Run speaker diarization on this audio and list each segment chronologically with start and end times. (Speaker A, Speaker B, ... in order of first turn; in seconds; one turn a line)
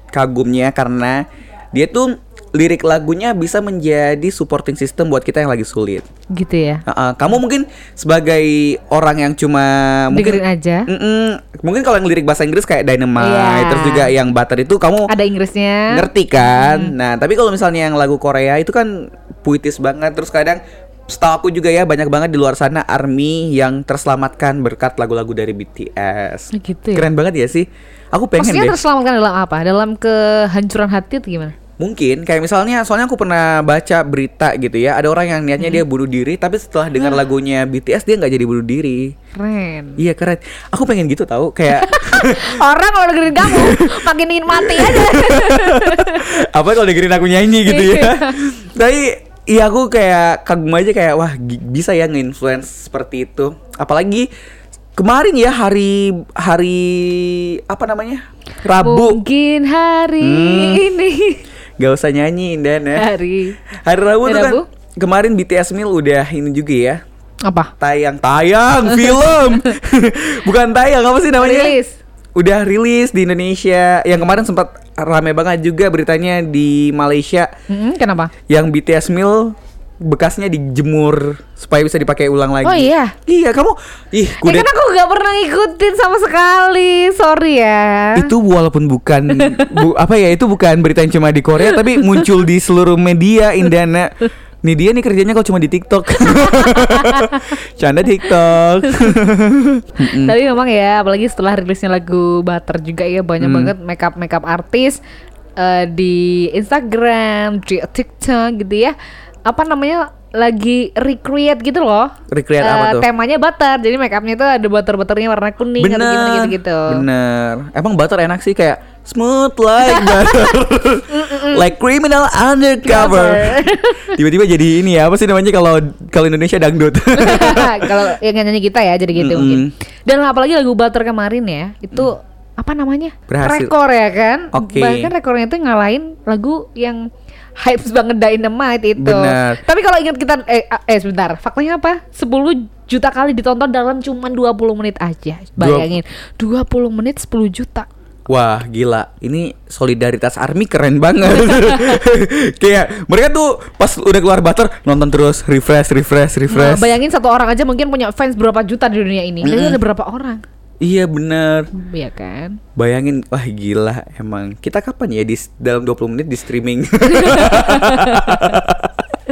Speaker A: 0.1-6.0
Speaker B: 6.3-6.8
Speaker A: 6.9-15.1
Speaker B: 10.1-10.9
Speaker B: 13.2-14.1
Speaker B: 15.1-16.9
Speaker A: 15.9-28.8
Speaker B: 26.5-27.1
Speaker B: 28.4-31.6
Speaker A: 31.8-39.1
Speaker B: 39.4-40.0
Speaker A: 40.0-42.6
Speaker B: 41.7-46.3
Speaker A: 43.4-54.3
Speaker B: 47.7-48.3
Speaker A: 55.0-59.2
Speaker B: 58.8-61.4
Speaker A: 60.2-60.8
Speaker A: 61.8-63.1
Speaker B: 62.9-63.6
Speaker A: 63.9-67.0
Speaker B: 64.2-64.7
Speaker B: 67.4-67.7
Speaker A: 67.8-71.8
Speaker B: 71.3-72.0
Speaker A: 72.4-77.5
Speaker B: 77.7-78.3
Speaker A: 78.5-84.7
Speaker B: 82.6-83.2
Speaker B: 84.4-88.3
Speaker A: 88.2-94.1
Speaker B: 89.4-89.8
Speaker B: 91.6-92.3
Speaker A: 94.6-100.4
Speaker B: 96.4-97.4
Speaker B: 100.0-105.0
Speaker A: 103.4-103.7
Speaker B: 105.6-109.0
Speaker B: 109.5-117.0
Speaker A: 112.3-113.1
Speaker A: 115.8-128.0
Speaker B: 119.8-120.6
Speaker B: 121.1-121.7
Speaker B: 122.8-124.2
Speaker B: 127.2-137.0
Speaker A: 129.2-129.7
Speaker A: 133.3-133.7
Speaker A: 134.5-135.1
Speaker B: 137.6-147.9
Speaker A: 139.0-139.6
Speaker A: 145.6-146.0
Speaker A: 148.3-157.0
Speaker B: 156.5-160.4
Speaker A: 159.4-159.8
Speaker A: 160.8-161.7
Speaker B: 161.7-162.6
Speaker A: 162.8-168.9
Speaker B: 167.1-168.6